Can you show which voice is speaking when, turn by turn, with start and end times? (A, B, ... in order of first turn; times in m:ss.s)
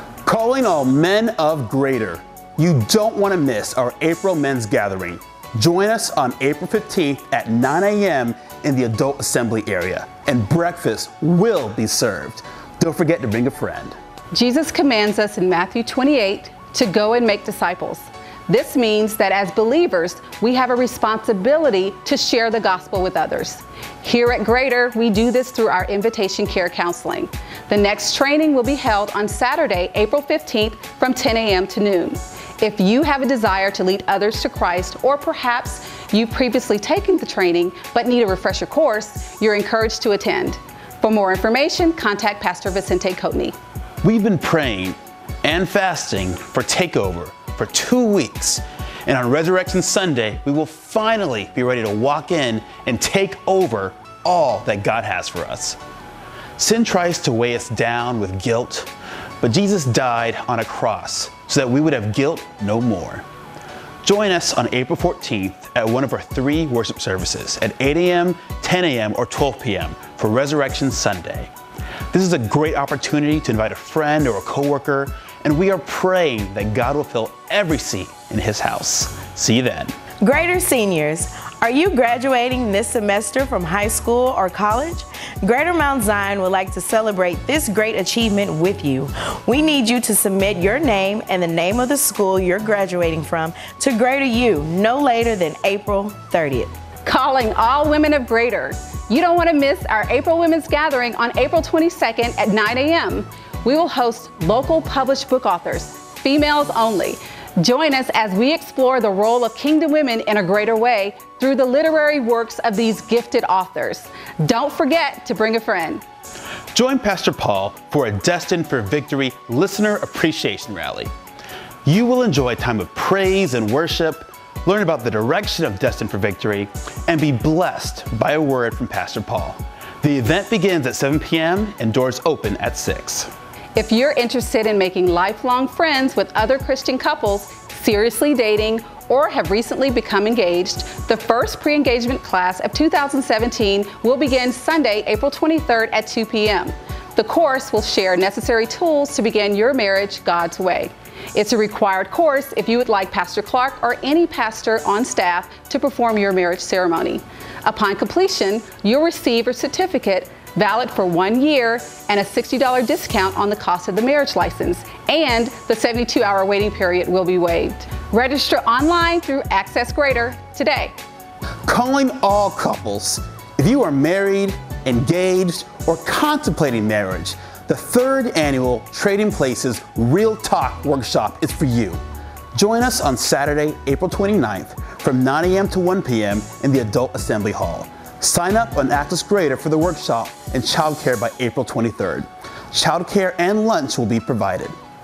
0:00.2-0:14.0 A
0:14.3-0:43.6 B
0:44.0-0:55.8 A
0:56.6-0:58.9 A
0:59.4-1:03.2 A
1:04.0-1:11.5 A
1:12.1-1:19.9 A
1:20.2-1:36.7 C
1:37.0-1:56.0 B
1:56.7-2:01.1 A
2:01.8-2:13.3 A
2:13.7-2:50.9 B
2:51.6-3:02.0 A
3:02.5-3:14.7 A